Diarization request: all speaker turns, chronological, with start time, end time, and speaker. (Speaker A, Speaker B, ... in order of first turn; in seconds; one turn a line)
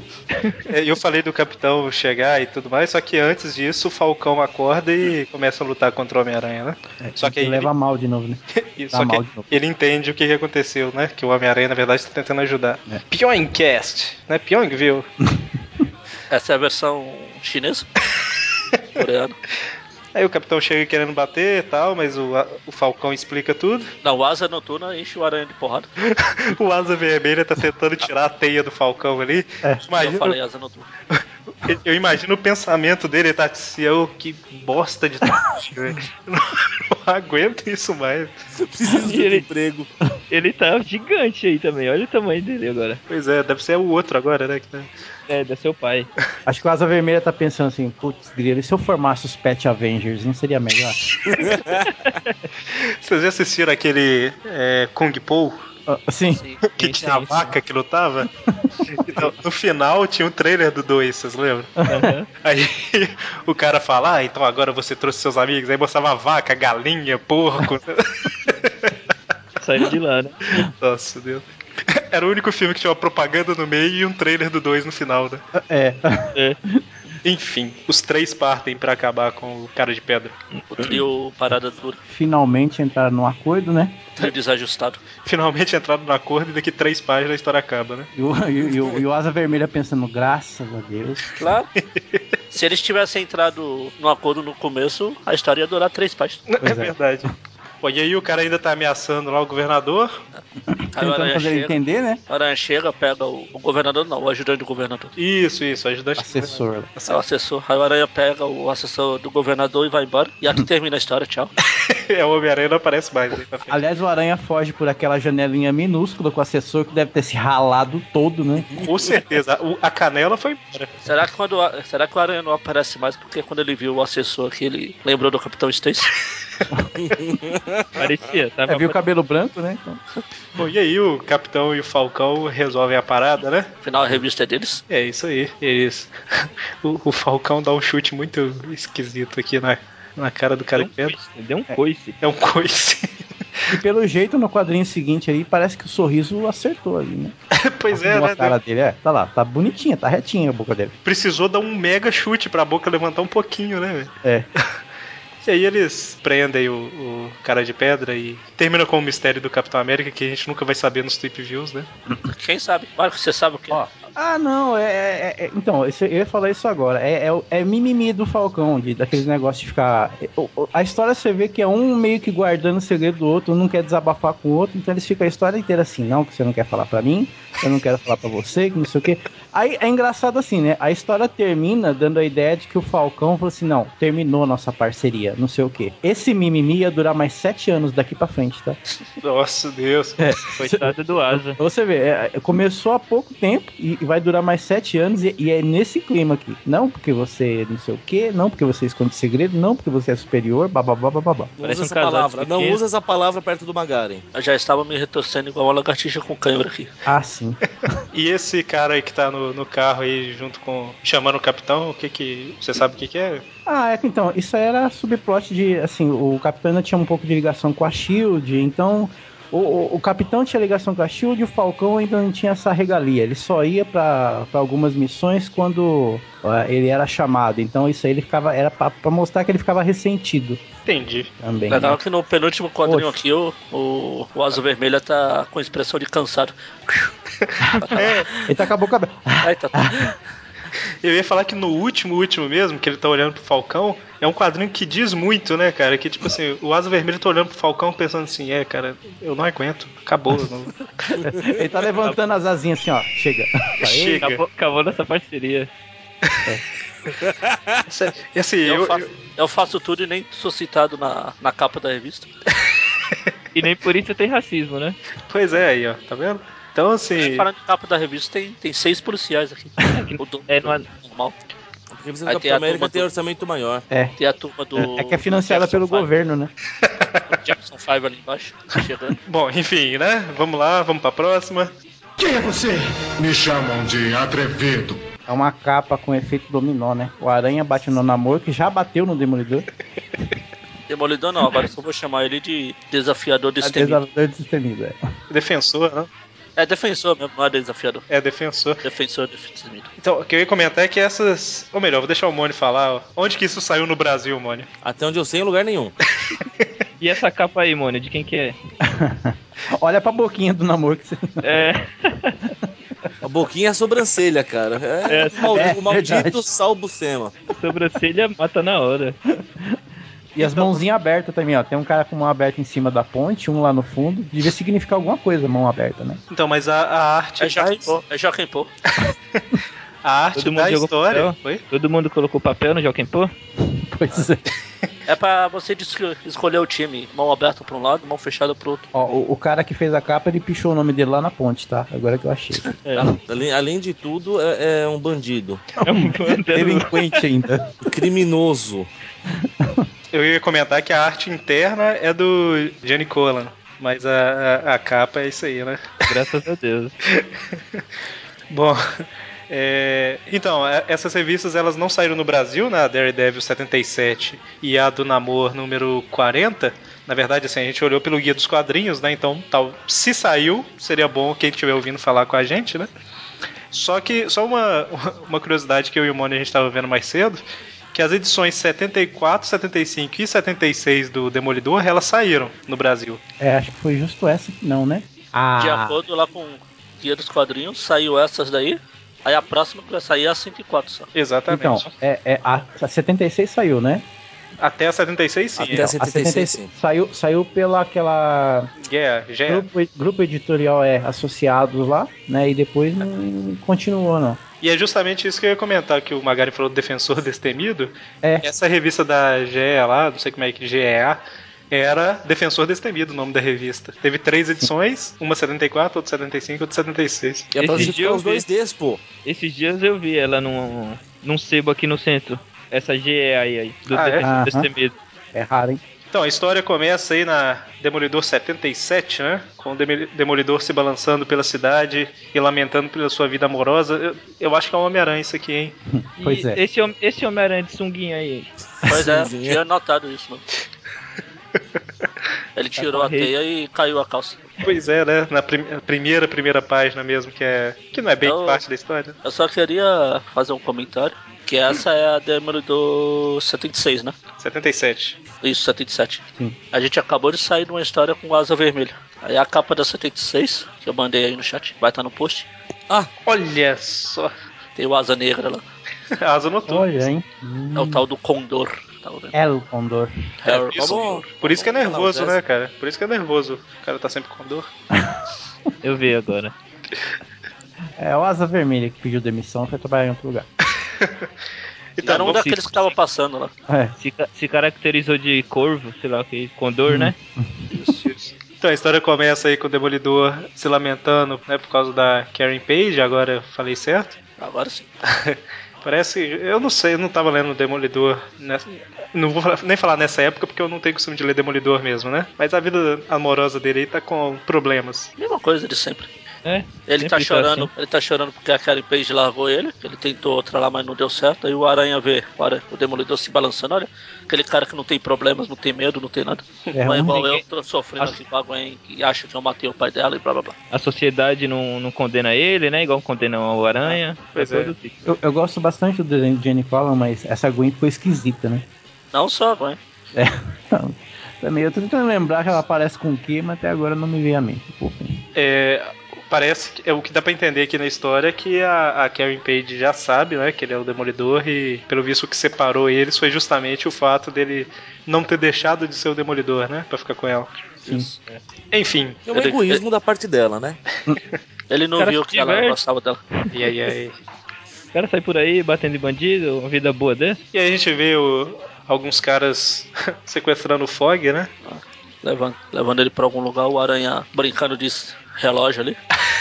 Speaker A: 0.3-0.6
Speaker B: 0.7-7.7
Speaker C: 7.0-8.4
Speaker B: 8.5-15.1
Speaker C: 8.9-9.5
Speaker C: 15.2-15.8
Speaker D: 16.3-17.9
Speaker D: 18.9-19.4
Speaker B: 20.1-23.9
Speaker D: 24.0-25.9
Speaker B: 26.1-30.4
Speaker D: 29.9-30.9
Speaker B: 31.1-38.3
Speaker E: 38.6-39.9
Speaker A: 39.0-39.5
Speaker A: 40.3-43.0
Speaker B: 43.1-44.9
Speaker A: 45.3-46.1
Speaker C: 46.5-51.0
Speaker E: 51.3-51.9
Speaker A: 51.9-52.4
Speaker B: 52.7-55.6
Speaker C: 55.9-56.4
Speaker D: 56.4-56.6
Speaker B: 56.7-58.3
Speaker A: 56.8-57.5
Speaker C: 58.5-58.8
Speaker B: 58.9-61.7
Speaker C: 61.8-62.1
Speaker A: 61.9-62.3
Speaker B: 62.4-68.9
Speaker A: 69.6-70.6
Speaker B: 70.6-75.4
Speaker C: 75.5-76.8
Speaker B: 77.2-80.3
Speaker D: 80.7-82.0
Speaker C: 82.1-84.1
Speaker D: 84.2-85.0
Speaker B: 85.2-88.1
Speaker C: 88.1-91.3
Speaker D: 91.4-91.7
Speaker D: 92.5-96.4
Speaker B: 96.5-97.3
Speaker C: 96.6-97.3
Speaker B: 97.8-100.2
Speaker C: 100.7-102.2
Speaker D: 100.9-101.7
Speaker D: 102.3-105.1
Speaker B: 105.2-107.2
Speaker C: 106.2-106.9
Speaker D: 107.1-111.5
Speaker B: 111.8-113.8
Speaker C: 113.7-118.8
Speaker E: 118.6-119.0
Speaker B: 118.8-121.0
Speaker D: 121.0-126.1
Speaker E: 127.0-128.1
Speaker A: 128.0-129.0
Speaker C: 128.7-130.0
Speaker B: 130.6-133.7
Speaker D: 133.8-134.8
Speaker B: 134.9-141.2
Speaker A: 140.8-142.2
Speaker B: 142.2-143.7
Speaker C: 143.7-147.3
Speaker B: 147.5-148.6
Speaker C: 147.9-151.0
Speaker B: 151.1-154.1
Speaker B: 155.4-161.9
Speaker D: 162.3-163.8
Speaker C: 163.7-188.8
Speaker B: 189.2-190.3
Speaker C: 190.2-190.9
Speaker A: 190.6-191.6
Speaker C: 191.5-201.5
Speaker E: 201.6-204.2
Speaker A: 201.6-202.8
Speaker D: 204.3-206.9
Speaker C: 207.1-207.7
Speaker B: 208.1-213.4
Speaker C: 213.7-230.6
Speaker B: 230.9-231.3
Speaker C: 231.4-232.0
Speaker D: 231.7-236.5
Speaker B: 237.4-238.2
Speaker D: 237.8-238.3
Speaker C: 238.4-240.1
Speaker D: 239.4-240.2
Speaker B: 241.0-250.8
Speaker C: 251.2-254.3
Speaker B: 253.8-254.4
Speaker A: 254.2-255.7
Speaker E: 257.2-257.8
Speaker B: 257.9-259.1
Speaker D: 258.6-262.3
Speaker A: 263.6-265.0
Speaker B: 265.3-267.5
Speaker D: 267.2-271.4
Speaker A: 269.9-270.9
Speaker E: 271.9-273.9
Speaker D: 272.3-273.1
Speaker D: 274.2-276.1
Speaker C: 274.8-276.5
Speaker B: 276.8-277.2
Speaker D: 277.3-279.2
Speaker B: 279.3-281.7
Speaker F: 282.2-282.6
Speaker F: 283.2-285.0
Speaker C: 285.3-289.7
Speaker D: 290.9-294.0
Speaker C: 293.6-295.0
Speaker B: 295.3-296.1
Speaker D: 296.6-298.1
Speaker B: 298.1-298.8
Speaker D: 298.8-299.9
Speaker B: 300.0-304.7
Speaker E: 304.8-305.9
Speaker A: 307.0-308.6
Speaker C: 308.8-311.6
Speaker A: 311.4-312.5
Speaker E: 313.2-317.4
Speaker A: 315.1-315.6
Speaker C: 315.5-316.5
Speaker A: 317.5-319.2
Speaker C: 320.4-326.2
Speaker B: 320.4-320.8
Speaker B: 326.3-328.0
Speaker D: 327.4-328.7
Speaker B: 329.0-329.4
Speaker B: 330.0-331.6
Speaker A: 330.4-333.3
Speaker C: 333.6-334.4
Speaker D: 335.1-338.9
Speaker C: 338.9-342.7
Speaker A: 342.9-343.2
Speaker E: 343.0-345.7
Speaker A: 345.8-347.2
Speaker C: 345.9-347.8
Speaker E: 347.9-348.9
Speaker C: 349.3-349.9
Speaker B: 350.1-356.0
Speaker A: 356.1-356.9
Speaker B: 357.1-357.8
Speaker B: 358.5-372.9
Speaker B: 373.7-383.2
Speaker C: 383.4-386.0
Speaker D: 385.6-391.1
Speaker B: 391.1-391.9
Speaker C: 391.5-394.1
Speaker B: 394.6-395.9
Speaker E: 395.6-396.7
Speaker C: 395.7-398.7
Speaker B: 398.8-399.7
Speaker C: 399.5-404.4
Speaker B: 404.6-411.2
Speaker B: 411.7-417.8
Speaker E: 417.5-419.0
Speaker A: 417.6-418.4
Speaker A: 419.2-424.9
Speaker B: 423.9-424.3
Speaker C: 424.2-424.7
Speaker C: 425.3-425.8
Speaker B: 426.1-435.8
Speaker C: 435.9-436.6
Speaker A: 436.2-438.5
Speaker E: 438.9-439.6
Speaker D: 438.9-440.4
Speaker D: 442.6-444.4
Speaker A: 442.8-443.3
Speaker B: 444.6-449.2
Speaker D: 448.2-448.6
Speaker D: 449.2-454.1
Speaker B: 454.4-455.2
Speaker D: 455.4-462.5
Speaker B: 463.2-464.3
Speaker D: 464.8-465.6
Speaker B: 466.2-467.1
Speaker C: 466.7-468.1
Speaker D: 467.8-469.4
Speaker C: 469.3-470.1
Speaker D: 470.4-472.3
Speaker E: 470.5-471.2
Speaker B: 470.6-474.7
Speaker C: 474.9-475.2
Speaker A: 475.8-476.5
Speaker C: 478.0-480.5
Speaker B: 481.0-481.3
Speaker B: 482.0-482.4
Speaker D: 482.0-483.5
Speaker A: 482.1-482.9
Speaker A: 484.0-487.1
Speaker C: 486.9-487.6
Speaker D: 487.7-488.1
Speaker B: 488.1-494.2
Speaker D: 494.4-494.9
Speaker B: 495.1-505.1
Speaker D: 505.2-506.1
Speaker A: 506.4-507.7
Speaker D: 506.9-520.5
Speaker C: 516.7-517.3
Speaker A: 517.1-517.4
Speaker A: 520.7-524.9
Speaker B: 524.4-524.7
Speaker C: 525.0-528.6
Speaker D: 529.1-529.8
Speaker C: 530.1-535.2
Speaker B: 535.4-547.5
Speaker D: 547.9-548.1
Speaker B: 548.7-549.2
Speaker E: 549.3-550.8
Speaker D: 549.3-549.8
Speaker D: 551.7-553.2
Speaker A: 552.0-552.8
Speaker A: 553.4-553.6
Speaker B: 553.5-554.2
Speaker A: 554.9-557.4
Speaker B: 557.5-561.5
Speaker D: 561.6-566.0